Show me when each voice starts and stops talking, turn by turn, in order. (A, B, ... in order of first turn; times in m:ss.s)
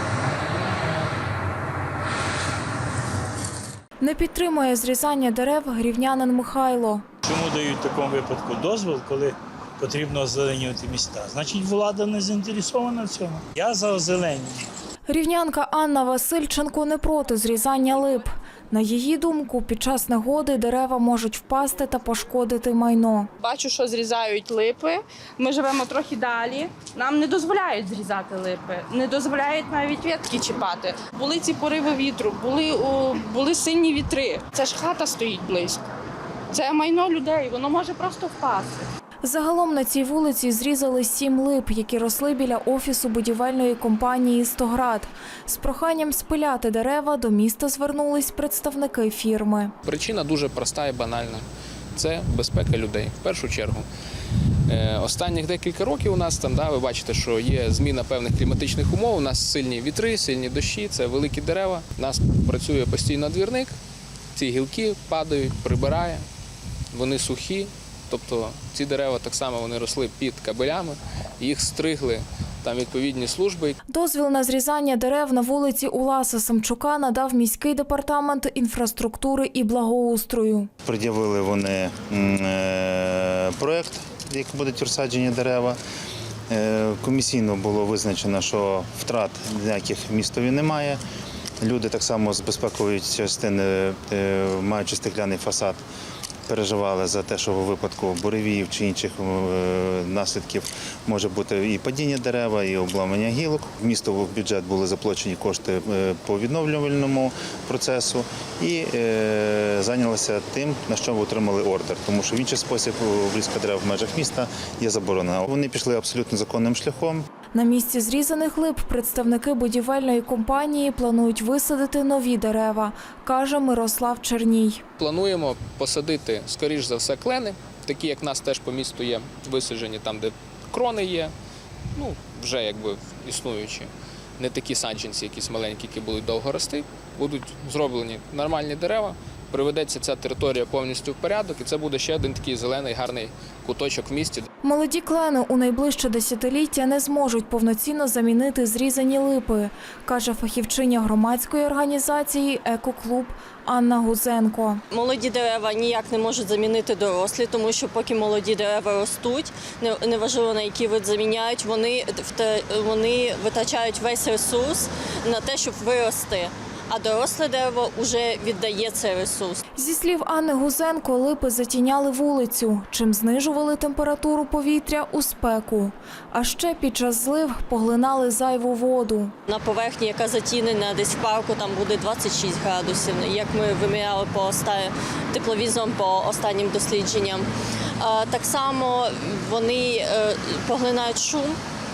0:04.0-0:07.0 A
0:07.2-0:14.7 B
0:15.1-0:23.3 A
0:23.4-0:35.8 C
0:36.5-0:38.8 C
0:39.2-0:49.7 A
0:49.8-0:53.8 D
0:54.7-1:03.7 D
1:04.3-1:06.2 D
1:06.9-1:13.8 D
1:13.9-1:20.7 A
1:20.8-1:25.8 E
1:26.5-1:31.0 E
1:31.6-1:35.8 E
1:36.5-1:57.2 E
1:57.5-2:04.8 A
2:05.0-2:11.3 D
2:11.9-2:24.5 D
2:24.6-2:34.8 A
2:34.9-2:49.6 F
2:49.8-2:59.3 A
2:59.5-3:07.5 F
3:08.0-3:11.6 F